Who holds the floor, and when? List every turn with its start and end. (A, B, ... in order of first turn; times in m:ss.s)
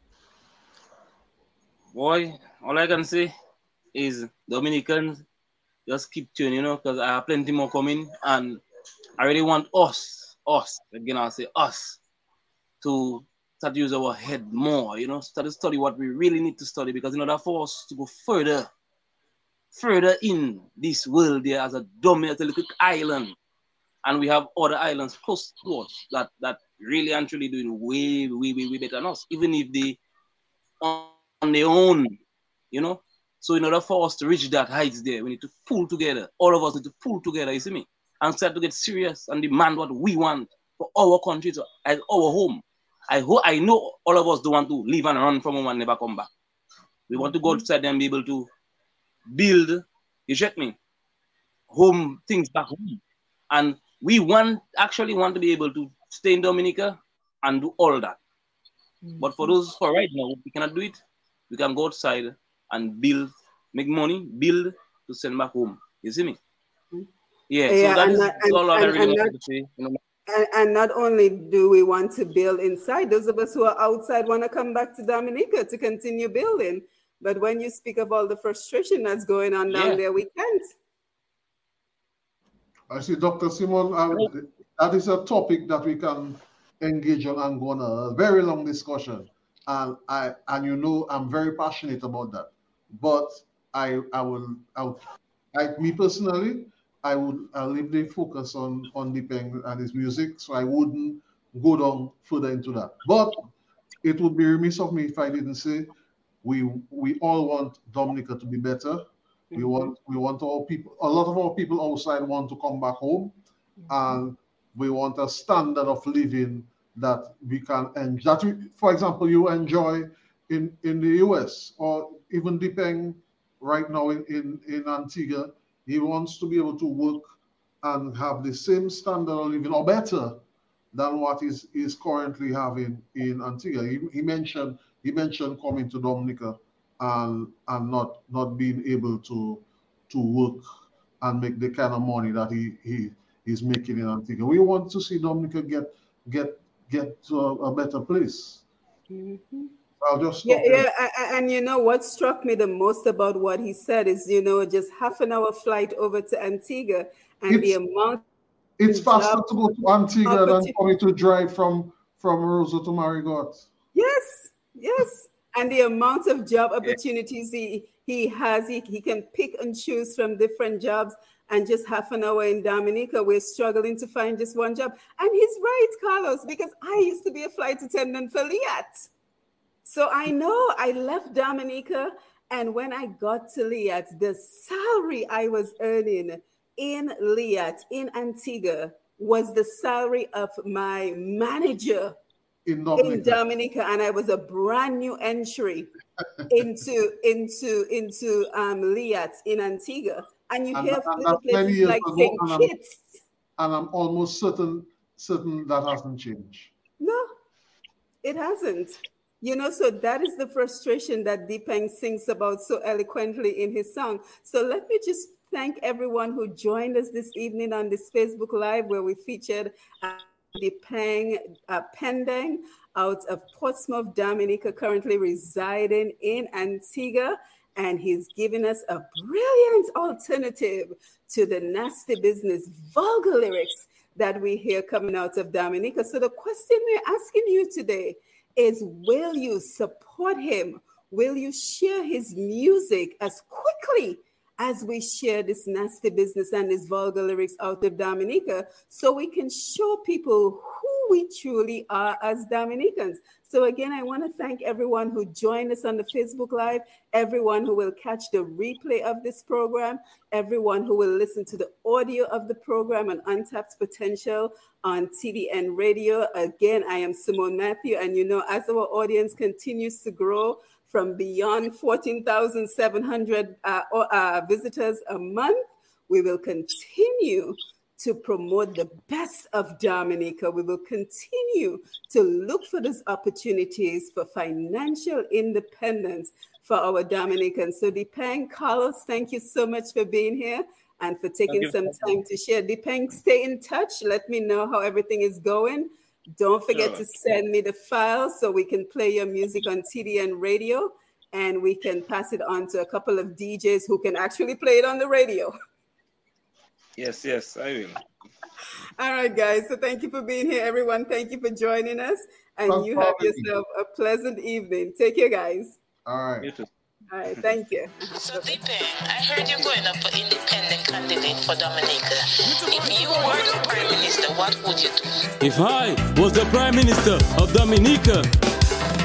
0:01.9-0:03.3 A
0:03.9-0:05.2 A
0:05.9-0:08.6 A
0:09.2-0:12.0 A
0:12.8-0:18.7 A
0:19.7-0:23.4 A
0:24.0-0:30.0 A
0:30.8-0:32.1 A
0:32.7-0:46.3 A
0:47.1-0:48.5 A
0:47.2-0:47.6 B
0:49.3-0:50.8 A
0:51.7-0:53.0 A
0:53.5-0:58.2 A
0:59.0-0:59.5 B
0:59.2-1:01.0 A
1:01.5-1:06.4 A
1:07.5-1:10.0 A
1:07.7-1:09.3 B
1:10.3-1:20.7 B
1:19.7-1:20.0 A
1:22.9-1:35.0 C
1:35.5-1:43.4 C
1:44.0-1:45.9 C
1:46.4-1:53.3 C
1:49.5-1:49.9 B
1:53.9-1:54.1 B
1:53.9-2:10.4 C
2:10.9-2:20.6 C
2:21.2-2:28.6 C
2:29.1-2:29.7 B
2:30.0-2:30.9 C
2:30.4-2:38.2 B
2:37.5-2:37.7 C
2:38.8-2:43.6 C
2:38.9-2:39.4 B
2:40.2-2:40.7 B
2:43.9-2:59.0 B
2:59.8-3:12.1 B
3:12.6-3:13.4 C
3:13.0-3:15.9 B
3:16.5-3:23.2 B
3:20.7-3:22.7 C
3:23.6-3:26.7 C
3:27.0-3:27.3 B
3:28.2-5:05.5 B
4:51.5-4:51.8 A
4:56.7-4:57.0 A
5:07.0-5:08.0 A
5:09.0-5:15.8 B
5:12.6-5:13.5 C
5:16.0-5:16.5 C
5:16.4-5:16.7 A
5:17.1-5:18.5 B
5:18.1-5:25.2 D
5:25.4-5:28.3 E